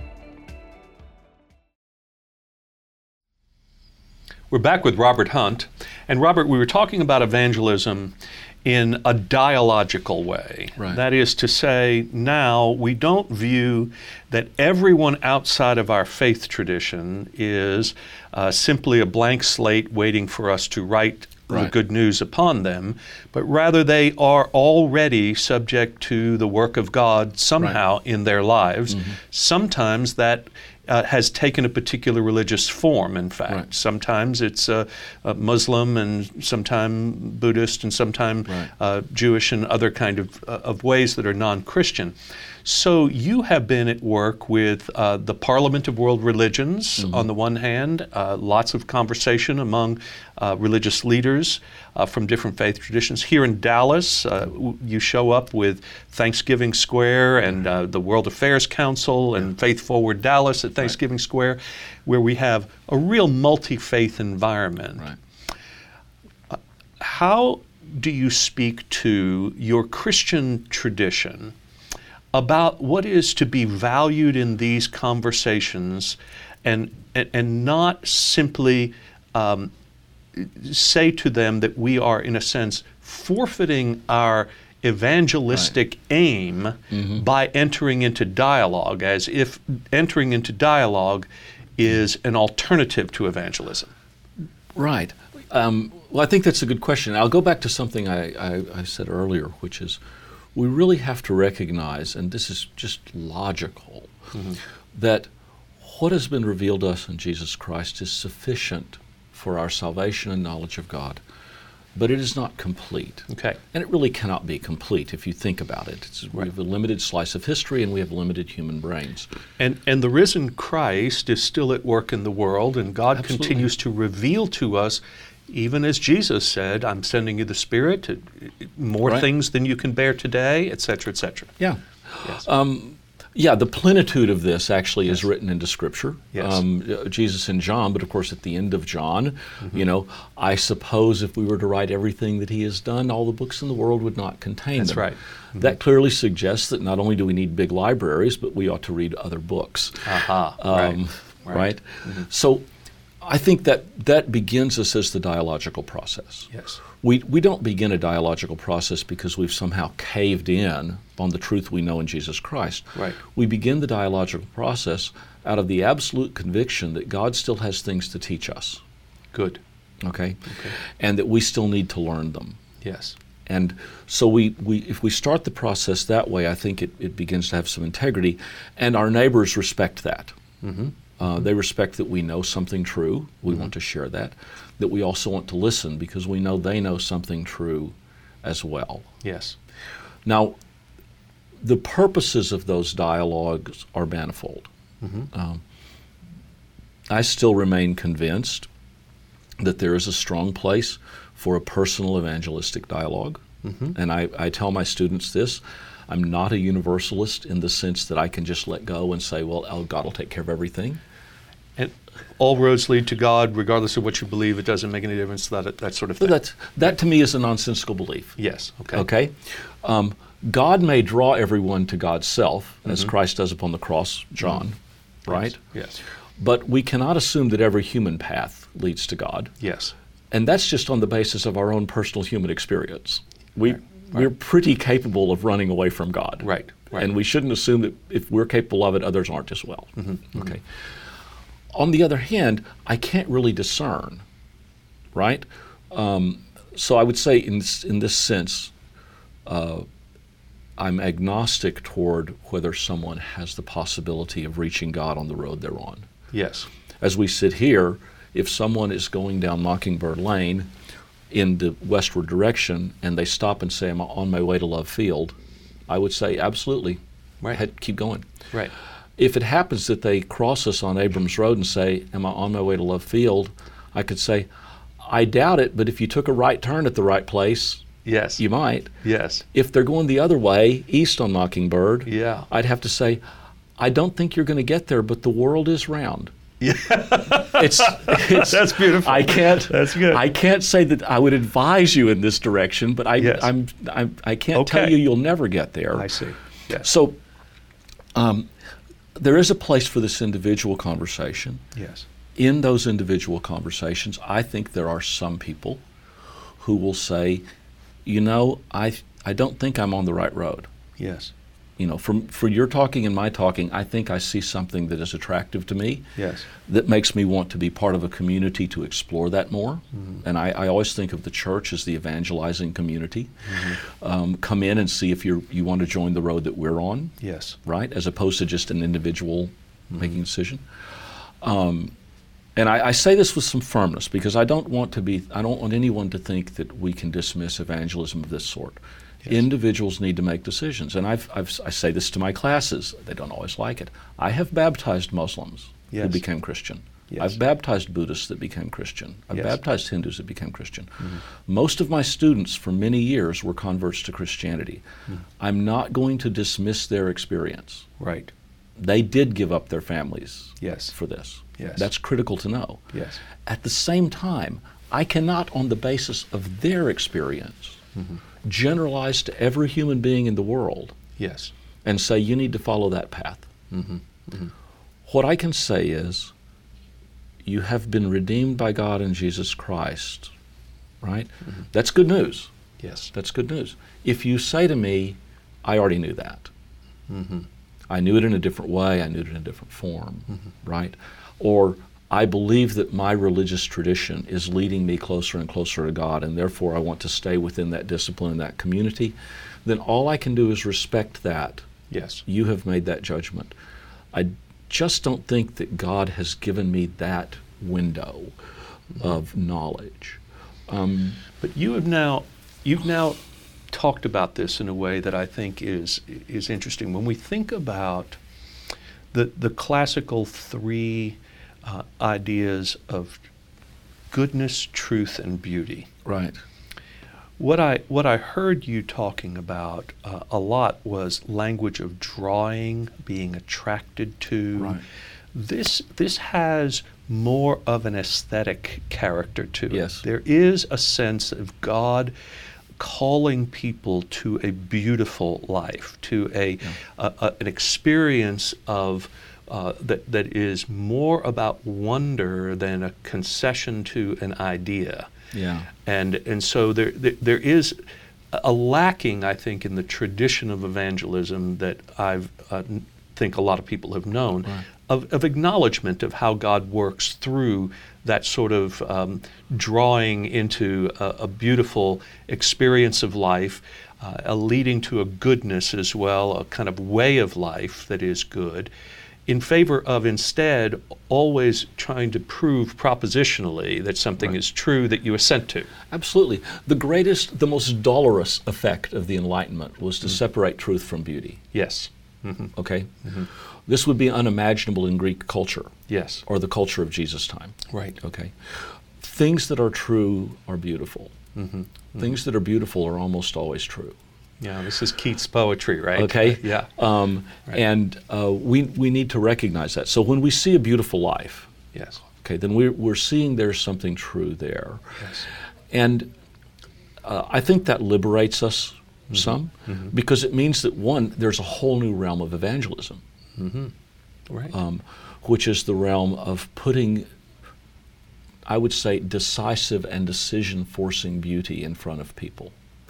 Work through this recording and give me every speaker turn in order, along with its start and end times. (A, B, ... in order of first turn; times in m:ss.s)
0:04.5-1:05.1 A
1:06.5-1:11.6 A
1:12.3-1:19.7 A
1:20.3-1:31.3 A
1:26.9-1:27.2 B
1:31.8-1:33.9 A
1:34.8-1:40.0 B
1:40.6-1:44.1 B
1:44.9-1:45.3 B
1:45.8-1:51.2 B
1:52.0-1:59.3 B
1:53.3-1:53.6 A
1:59.6-2:11.6 A
2:03.2-2:03.6 B
2:11.6-2:32.6 B
2:16.3-2:16.6 A
2:24.8-2:25.7 A
2:30.0-2:32.3 A
2:33.2-2:48.8 B
2:36.5-2:36.8 A
2:49.3-2:49.6 A
2:50.0-2:52.6 B
2:50.5-2:50.8 A
2:52.8-2:53.2 A
2:53.5-3:00.4 B
3:00.6-3:01.0 A
3:01.2-3:09.1 B
3:09.2-3:09.6 A
3:10.2-3:10.6 B
3:11.6-3:14.7 B
3:15.0-3:15.3 A
3:15.3-3:15.6 B
3:17.1-3:18.7 B
3:19.6-3:23.4 B
3:23.6-3:24.0 A
3:23.9-3:31.0 B
3:31.8-3:36.4 A
3:36.2-3:38.4 B
3:38.4-3:39.1 A
3:38.9-3:45.6 B
3:45.3-3:46.0 A
3:46.4-3:49.5 B
3:49.6-3:49.9 A
3:50.3-4:00.6 B
3:56.4-3:57.0 A
4:00.0-4:00.5 A
4:01.7-4:04.2 B
4:05.1-4:08.7 B
4:09.4-4:09.9 B
4:10.8-4:16.1 B
4:16.3-4:16.7 A
4:17.0-4:20.7 B
4:21.3-4:25.4 B
4:25.9-4:27.0 B
4:27.5-4:28.3 B
4:29.2-4:34.5 B
4:35.0-4:37.8 B
4:38.0-4:38.4 A
4:38.4-4:38.9 B
4:39.0-4:39.4 A
4:39.5-4:43.2 B
4:42.1-4:42.5 A
4:43.8-4:46.3 B
4:46.6-4:50.2 A
4:47.5-4:56.1 B
4:53.2-4:53.5 A
4:54.5-4:55.1 A
4:55.9-4:56.9 A
4:56.8-4:57.2 B
4:58.2-4:58.5 B
4:59.2-5:01.6 B
5:01.8-5:02.1 A
5:02.4-5:05.8 B
5:06.6-5:07.4 B
5:08.0-5:10.7 B
5:11.0-5:11.3 A
5:11.8-5:16.1 B
5:16.2-5:16.5 A
5:16.7-5:30.6 B
5:23.5-5:23.8 A
5:27.2-5:27.6 A
5:31.4-5:31.9 B
5:32.6-5:54.8 B
5:45.9-5:46.2 A
5:47.1-5:47.4 A
5:55.4-5:57.9 B
5:58.0-5:58.3 A
5:58.8-6:07.8 B
6:00.6-6:00.9 A
6:01.6-6:01.9 A
6:02.9-6:03.2 A
6:08.4-6:11.0 B
6:11.2-6:11.5 A
6:11.8-6:13.5 B
6:13.7-6:14.5 A
6:15.1-6:16.3 B
6:17.4-6:20.3 B
6:21.0-6:22.5 B
6:22.8-6:23.1 A
6:23.1-6:26.5 B
6:27.1-6:27.5 A
6:27.9-6:41.7 B
6:41.9-6:42.2 A
6:42.3-6:43.5 B
6:44.1-6:48.3 B
6:49.0-6:51.2 B
6:51.4-6:58.2 A
6:59.1-7:03.2 A
7:04.1-7:05.9 A
7:06.0-7:06.4 B
7:07.4-7:14.8 A
7:14.6-7:14.8 B
7:15.3-7:22.1 A
7:19.7-7:20.0 B
7:22.8-7:35.1 A
7:35.3-7:35.7 B
7:35.8-7:37.8 A
7:38.3-7:58.7 A
7:59.3-8:05.7 A
8:05.9-8:11.4 B
8:11.5-8:13.3 A
8:12.6-8:12.9 B
8:13.7-8:21.2 B
8:15.9-8:16.2 A
8:17.7-8:18.0 A
8:21.4-8:22.1 A
8:22.0-8:24.0 B
8:24.4-8:26.7 A
8:26.0-8:31.5 B
8:31.7-8:32.0 A
8:32.2-8:34.9 B
8:35.0-8:35.3 A
8:35.7-8:36.1 B
8:37.0-8:43.0 B
8:39.1-8:39.9 A
8:43.4-8:43.7 A
8:44.3-8:44.5 A
8:44.5-8:47.1 B
8:48.5-8:52.5 B